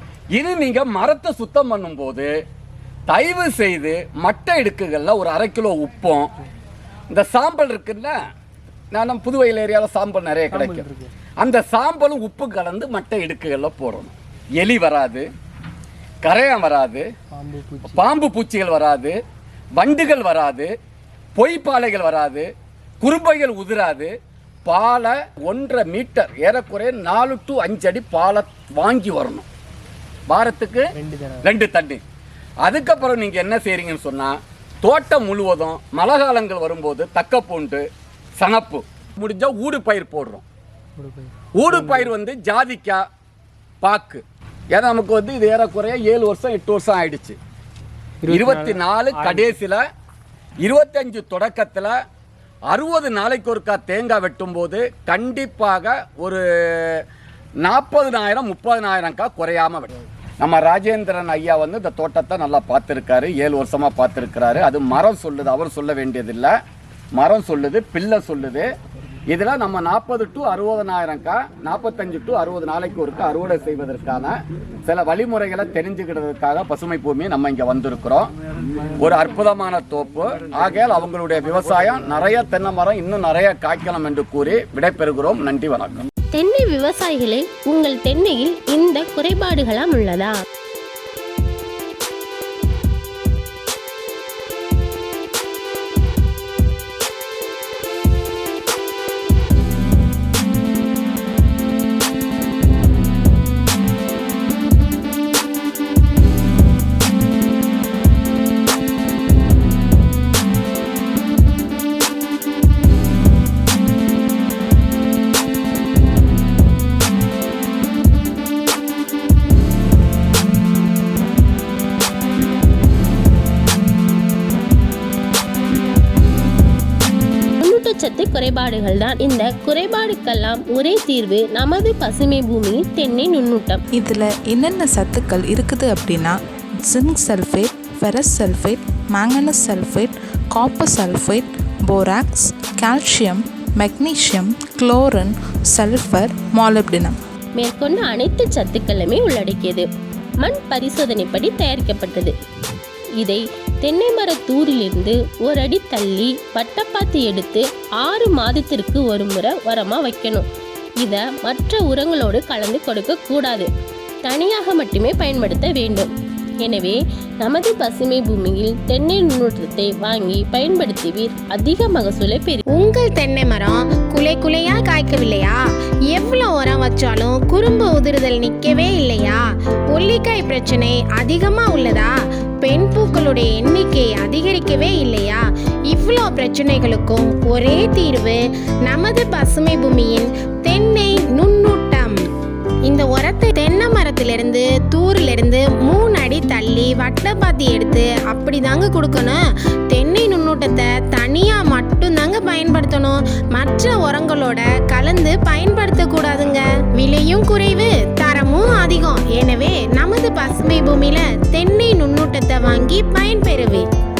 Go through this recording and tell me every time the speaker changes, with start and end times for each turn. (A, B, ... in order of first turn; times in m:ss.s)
0:00.4-0:02.3 A
0:03.1-0:06.3 A
0:07.1-0:08.2 A
0:08.9-0:10.9 A
0:10.5-0:11.1 B
0:11.4-0:15.3 A
0:16.2-0:17.1 A
0:17.4-0:18.0 B
0:17.8-0:19.2 A
0:19.8-0:20.7 A
0:21.4-0:22.5 A
0:23.0-0:24.1 A
0:24.7-0:29.5 A
0:30.3-0:30.9 A
0:31.0-0:31.4 B
0:31.4-0:32.0 A
0:32.7-0:37.9 A
0:38.4-0:40.4 A
0:41.0-0:41.3 B
0:41.5-0:43.0 A
0:43.8-0:47.4 A
0:48.3-0:49.5 B
0:48.3-0:49.8 A
0:50.6-0:51.9 A
0:52.7-0:57.0 A
0:57.6-1:06.5 A
1:07.2-1:08.7 A
1:09.3-1:18.3 A
1:19.0-1:26.0 A
1:26.3-1:30.4 C
2:07.6-2:13.8 C
2:14.0-2:27.2 D
2:27.6-2:29.9 C
2:30.4-2:32.4 C
2:33.2-2:40.5 C
2:41.0-2:43.7 C
2:44.2-2:46.1 C
2:46.6-2:52.6 C
2:52.8-2:55.6 E
2:56.1-3:12.2 E
3:12.9-3:19.4 E
3:19.9-3:33.8 E